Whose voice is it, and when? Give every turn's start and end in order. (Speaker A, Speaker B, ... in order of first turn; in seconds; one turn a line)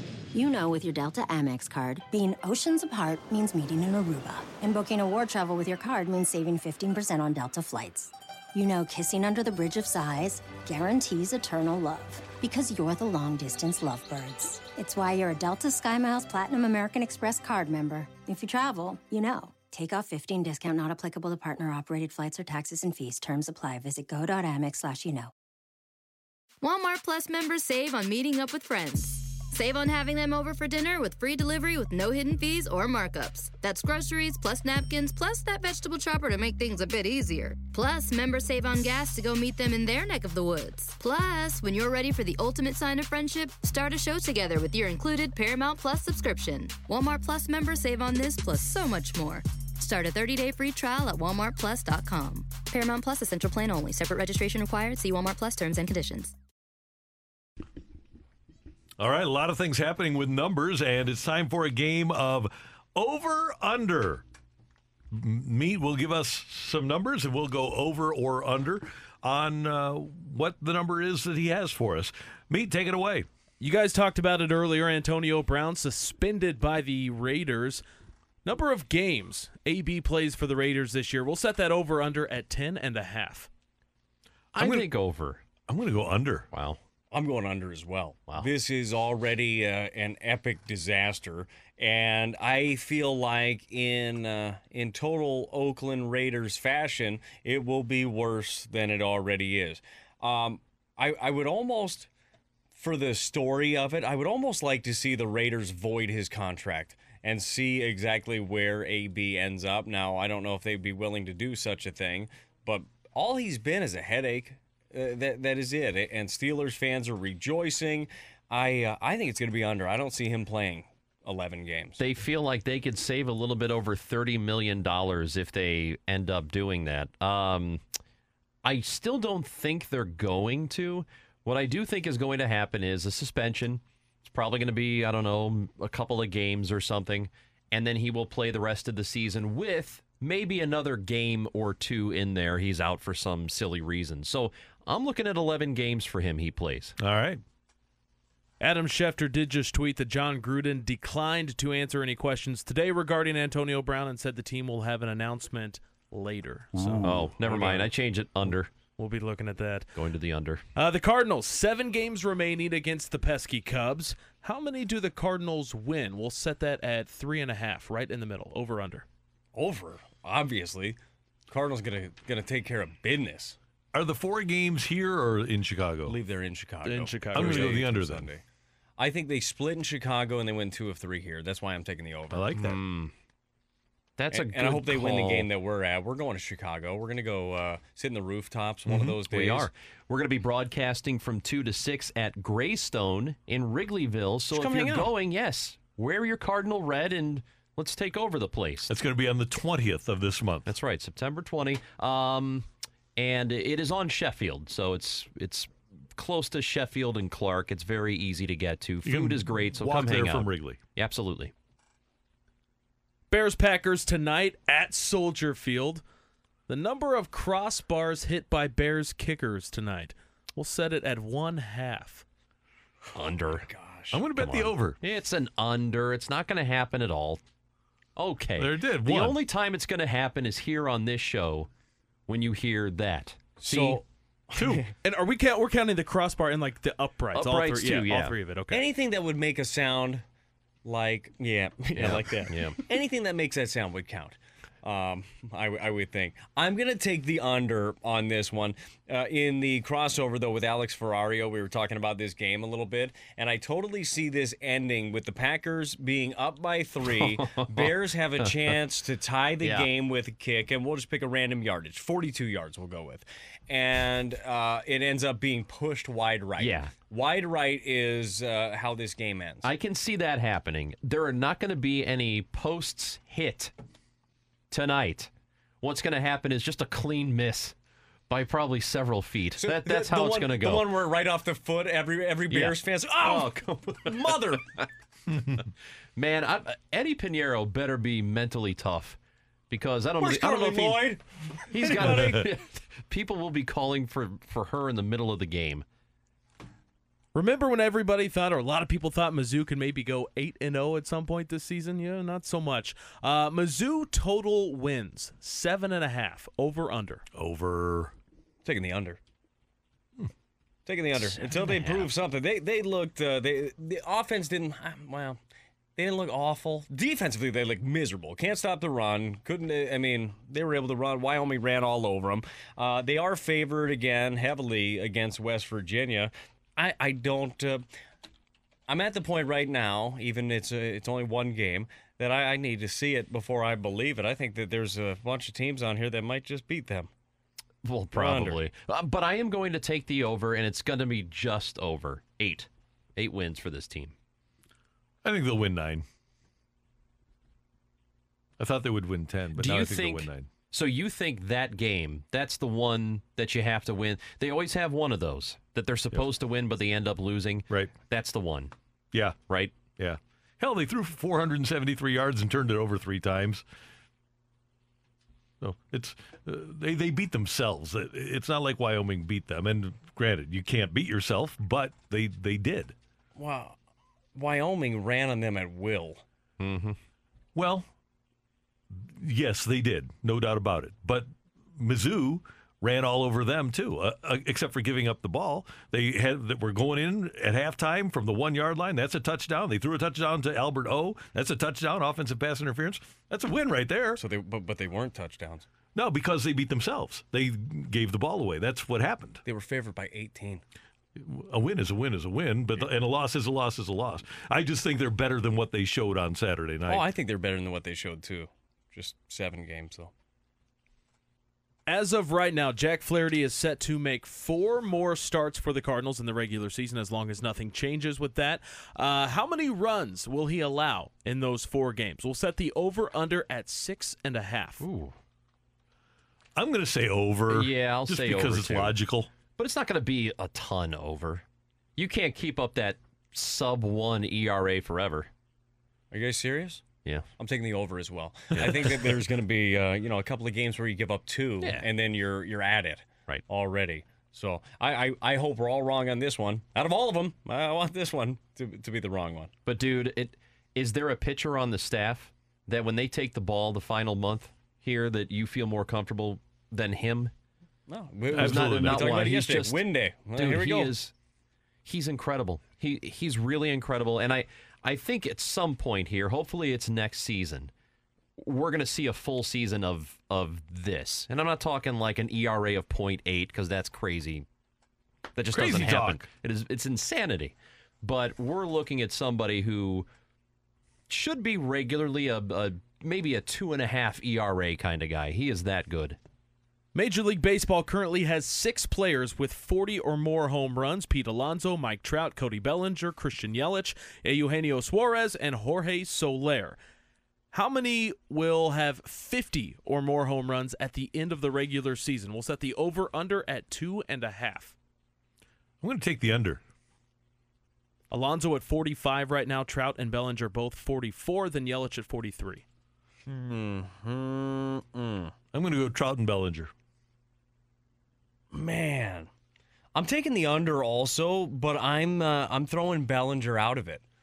Speaker A: 0.3-25.3
Speaker B: 26.6-56.3
Speaker C: 59.0-64.2
Speaker C: 65.1-73.3
Speaker D: 73.6-77.8
Speaker D: 78.4-83.5
Speaker E: 84.5-85.4
Speaker C: 84.6-84.9
Speaker C: 85.6-86.5
Speaker E: 86.5-86.8
Speaker F: 87.1-102.1
Speaker F: 102.8-122.0
Speaker E: 122.0-127.8
Speaker E: 128.6-146.9
Speaker C: 147.0-147.4
Speaker D: 148.6-157.9
Speaker C: 156.7-157.3
Speaker E: 157.0-158.7
Speaker D: 159.0-159.9
Speaker E: 159.9-160.6
Speaker D: 160.7-169.1
Speaker F: 169.5-171.0
Speaker F: 171.5-173.6
Speaker C: 173.9-176.2
Speaker F: 176.1-178.4
Speaker D: 176.8-178.0
Speaker C: 177.3-178.3
Speaker F: 179.0-182.5
Speaker C: 182.3-182.8
Speaker E: 182.5-183.1
Speaker E: 184.2-185.5
Speaker F: 184.3-189.7
Speaker E: 188.9-198.9
Speaker F: 194.5-195.1
Speaker C: 198.9-200.7
Speaker E: 200.7-211.5
Speaker C: 209.0-210.8
Speaker D: 213.3-216.0
Speaker D: 216.7-222.2
Speaker E: 223.1-223.7
Speaker F: 223.5-224.2
Speaker C: 224.1-225.0
Speaker E: 224.3-227.4
Speaker E: 228.2-231.7
Speaker C: 228.6-229.4
Speaker E: 232.3-234.0
Speaker F: 233.6-234.8
Speaker C: 234.6-234.9
Speaker D: 235.0-238.9
Speaker E: 237.3-238.4
Speaker F: 238.7-240.2
Speaker F: 240.8-269.7
Speaker E: 241.9-242.8
Speaker E: 257.1-258.5
Speaker E: 259.6-259.9
Speaker E: 266.6-266.9
Speaker E: 269.6-273.7
Speaker E: 274.7-277.8
Speaker E: 278.3-280.9
Speaker F: 279.6-284.7
Speaker E: 282.5-284.6
Speaker E: 286.1-289.2
Speaker E: 289.7-291.1
Speaker F: 290.2-292.4
Speaker E: 291.7-295.8
Speaker C: 292.0-292.4
Speaker D: 297.3-307.2
Speaker C: 307.3-308.1
Speaker F: 308.6-309.2
Speaker F: 310.9-315.4
Speaker F: 316.0-327.9
Speaker F: 328.9-337.1
Speaker E: 337.8-344.1
Speaker F: 338.1-338.6
Speaker C: 345.2-346.0
Speaker C: 348.6-350.5
Speaker E: 349.5-358.7
Speaker C: 359.1-363.6
Speaker E: 359.5-359.8
Speaker C: 365.6-372.9
Speaker F: 373.4-373.8
Speaker F: 374.3-376.2
Speaker E: 376.6-377.0
Speaker C: 377.5-377.9
Speaker C: 378.9-394.2
Speaker F: 394.1-395.6
Speaker C: 395.9-399.4
Speaker F: 399.4-400.6
Speaker C: 401.2-407.0
Speaker F: 406.9-410.1
Speaker D: 411.9-424.8
Speaker E: 424.8-425.1
Speaker C: 426.6-429.3
Speaker E: 427.5-428.9
Speaker E: 429.6-431.4
Speaker E: 432.0-435.3
Speaker F: 436.1-436.8
Speaker F: 437.4-449.5
Speaker E: 438.5-438.9
Speaker E: 441.6-441.9
Speaker E: 449.6-457.3
Speaker F: 457.9-460.9
Speaker C: 458.3-459.2
Speaker E: 458.3-461.1
Speaker E: 461.8-467.7
Speaker E: 468.4-474.4
Speaker E: 475.3-480.1
Speaker C: 475.5-476.2
Speaker E: 481.1-486.2
Speaker D: 486.9-496.8
Speaker D: 497.5-504.7
Speaker C: 505.8-506.6
Speaker D: 508.1-512.6
Speaker F: 513.3-515.3
Speaker C: 515.5-516.7
Speaker F: 518.5-519.3
Speaker F: 519.9-524.0